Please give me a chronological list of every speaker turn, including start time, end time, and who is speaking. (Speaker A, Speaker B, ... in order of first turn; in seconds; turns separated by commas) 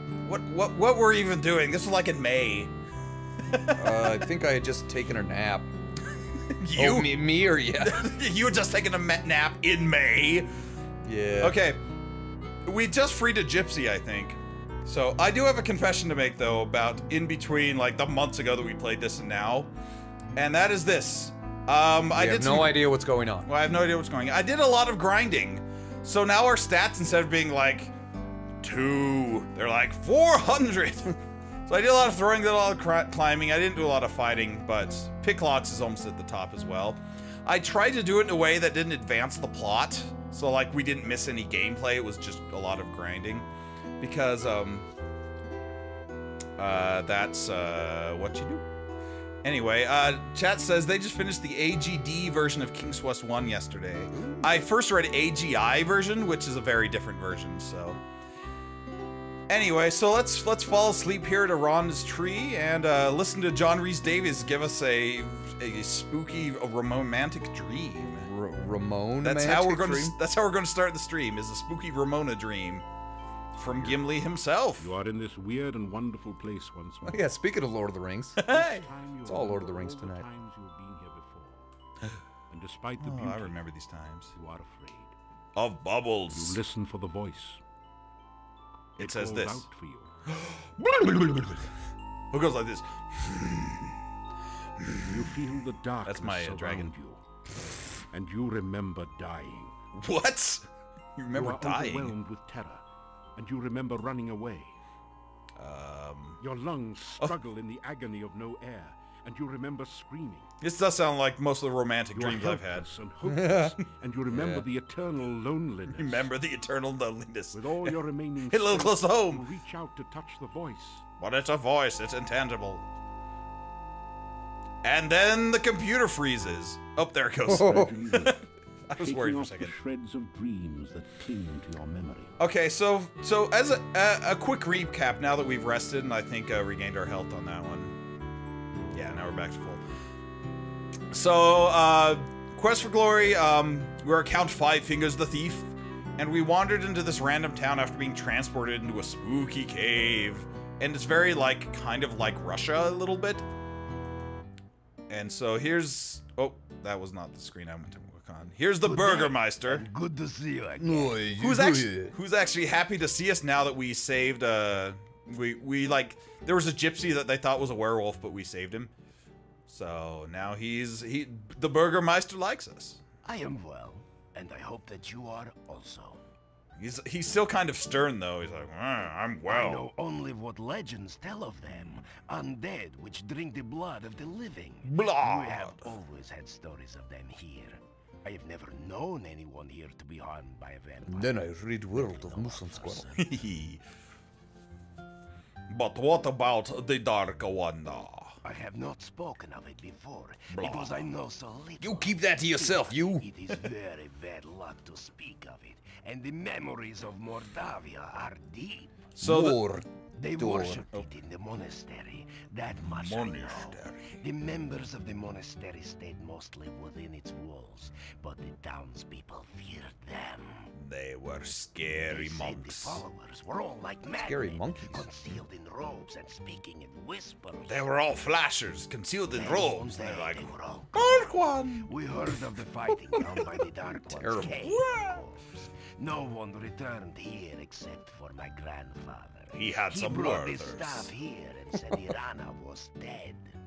Speaker A: 0.2-2.7, Speaker A: 3.5-4.2, Speaker B: 3.8-5.7, Speaker A: 6.6-10.5, Speaker B: 6.8-8.1, Speaker B: 11.0-11.6, Speaker A: 11.4-11.8, Speaker A: 12.7-19.7, Speaker A: 20.4-22.9, Speaker B: 22.1-23.5, Speaker A: 23.4-27.9, Speaker A: 28.6-31.2, Speaker A: 31.7-43.5, Speaker A: 44.0-44.9, Speaker A: 46.6-48.6, Speaker A: 49.4-58.0, Speaker B: 54.1-54.6, Speaker A: 59.5-68.3, Speaker B: 68.0-70.2, Speaker A: 69.2-72.9, Speaker A: 73.6-74.9, Speaker C: 73.7-74.0, Speaker C: 74.8-77.3, Speaker B: 77.0-78.5, Speaker A: 78.4-78.9, Speaker C: 78.5-81.7, Speaker B: 79.2-80.3, Speaker C: 82.5-83.6, Speaker A: 83.0-84.3, Speaker C: 84.3-85.1, Speaker A: 85.6-86.6, Speaker C: 86.3-87.6, Speaker C: 89.0-90.1, Speaker A: 89.0-89.7, Speaker A: 90.3-91.7, Speaker A: 92.3-94.0, Speaker A: 94.8-95.2, Speaker C: 95.0-97.2, Speaker A: 96.0-96.9, Speaker C: 98.1-99.7, Speaker A: 100.0-100.7, Speaker A: 101.2-102.2, Speaker C: 101.3-102.8, Speaker C: 103.4-104.8, Speaker A: 105.6-106.4, Speaker C: 106.4-110.5, Speaker A: 110.6-112.9, Speaker C: 112.1-116.3, Speaker B: 113.2-113.8, Speaker B: 114.3-114.7, Speaker A: 116.0-118.0, Speaker C: 117.5-121.0, Speaker A: 118.5-119.5, Speaker A: 121.2-122.8, Speaker A: 124.8-129.7, Speaker B: 127.5-128.0, Speaker C: 127.5-128.4, Speaker C: 128.9-132.3, Speaker A: 132.4-137.9, Speaker A: 138.9-139.8, Speaker A: 141.1-153.5, Speaker A: 155.1-159.9, Speaker D: 158.8-161.2, Speaker B: 160.8-162.2, Speaker A: 161.4-168.9, Speaker A: 169.7-173.0, Speaker D: 173.2-176.2, Speaker A: 176.8-179.8, Speaker D: 179.5-193.4, Speaker A: 184.8-185.9, Speaker B: 191.1-193.1, Speaker A: 193.2-193.8, Speaker A: 195.7-198.4, Speaker D: 198.4-209.1, Speaker A: 200.5-201.1, Speaker B: 201.8-203.3, Speaker A: 209.2-209.6, Speaker B: 209.2-210.9, Speaker D: 210.2-220.7, Speaker A: 212.8-214.1, Speaker A: 220.8-223.1, Speaker D: 222.1-227.9, Speaker B: 224.2-225.1, Speaker A: 227.7-231.9, Speaker D: 229.3-243.6, Speaker B: 234.0-234.7, Speaker A: 234.3-235.2, Speaker A: 239.5-241.1